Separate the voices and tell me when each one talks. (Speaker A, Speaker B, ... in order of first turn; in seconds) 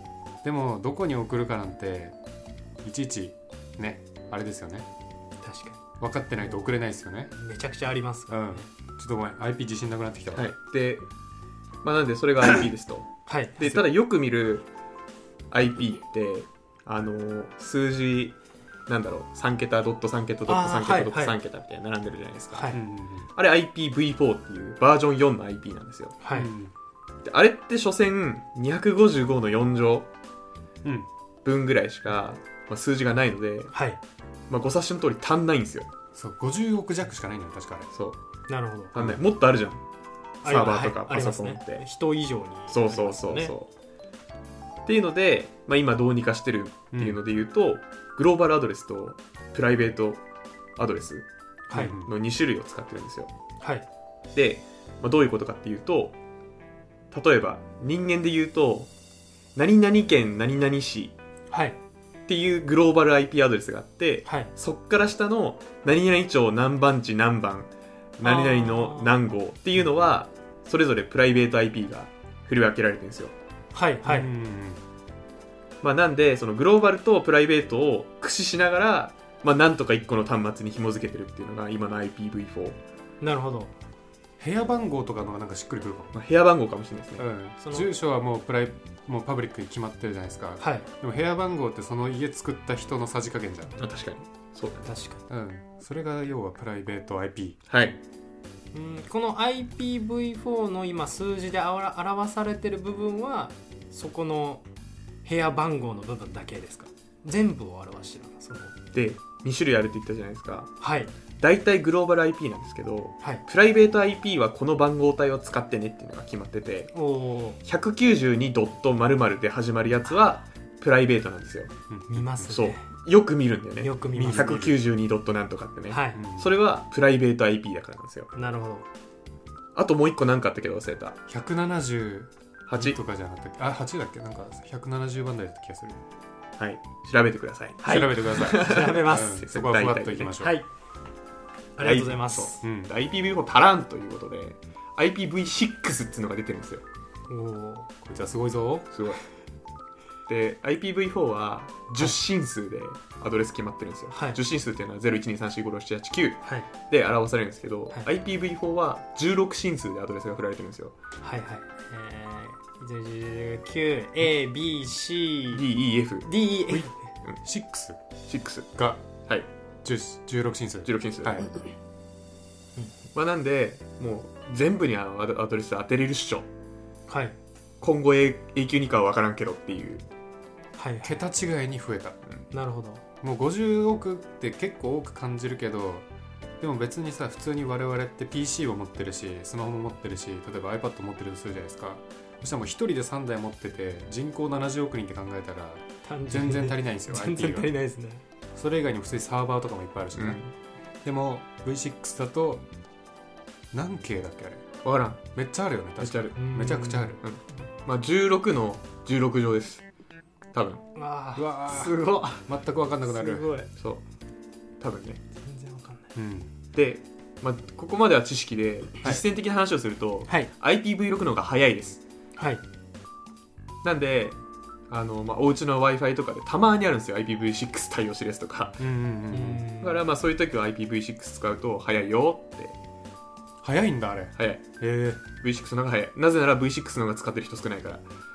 Speaker A: 0.4-2.1, 2.8-4.9, 6.0-7.3, 8.3-10.5, 13.6-13.8, 22.7-23.3, 26.3-26.7, 36.1-37.9, 39.0-39.2, 46.9-47.2, 51.7-52.1, 74.0-74.8, 84.4-86.1, 87.2-93.7, 95.3-97.6, 121.9-122.6, 124.1-124.8, 126.1-126.5, 131.3-136.0, 137.8-140.6, 142.6-142.9, 148.0-148.9, 167.4-168.0, 168.8-169.1, 169.8-171.5, 181.0-182.2, 183.2-186.1, 186.6-197.7, 198.5-200.4, 201.0-202.6, 203.7-204.6, 205.3-207.2, 211.3-213.5, 216.1-216.5, 228.8-229.7, 233.6-235.2
Speaker B: 5.4-5.8, 6.3-6.7, 7.3-8.6, 13.3-13.6, 20.5-21.4, 26.2-26.5, 33.7-34.0, 38.5-38.9, 40.4-43.5, 51.7-52.0, 53.6-53.9, 61.5-61.8, 64.2-64.5, 68.2-69.2, 73.7-74.3, 83.2-83.7, 87.6-87.9, 90.6-90.9, 94.8-95.2, 98.7-104.6, 105.2-108.7, 110.8-111.1, 116.9-117.6, 122.1-122.8, 123.8-124.6, 125.9-126.2, 128.3-128.8, 137.8-139.4, 140.4-140.7, 141.8-142.6, 147.3-147.9, 154.1-154.4, 161.2-165.6, 166.2-166.9, 177.1-177.3, 180.8-181.2, 182.5-183.0, 196.0-198.2, 206.3-207.2, 210.9-213.7, 215.4-216.1, 222.4-222.6, 229.3-230.0
Speaker C: 10.3-11.1, 11.8-14.6, 15.5-18.3, 18.9-22.8, 23.3-26.1, 27.2-30.1, 31.4-33.7, 34.5-35.9, 37.9-38.2, 38.9-39.8, 40.5-41.8, 42.7-43.7, 44.8-50.2, 50.8-51.3, 51.8-53.3, 54.3-56.1, 57.1-58.9, 59.5-61.1, 62.3-73.3, 75.8-82.8, 86.1-87.2, 93.8-94.9, 97.7-98.0, 108.9-110.7, 111.4-116.9, 117.6-121.7, 122.5-128.3, 129.7-131.2, 132.7-133.0, 136.6-140.3, 141.8-146.8, 148.9-149.2, 150.3-160.9, 165.5-166.3, 168.3-168.7, 170.8-171.5, 173.1-176.4, 177.8-180.0, 200.1-200.5, 204.8-205.2, 206.0-206.3, 207.2-209.8, 210.5-210.8, 213.8-214.0, 214.8-215.2, 216.7-222.0, 223.8-224.4, 224.9-228.8, 229.8-232.8, 234.4-234.6, 235.4-238.0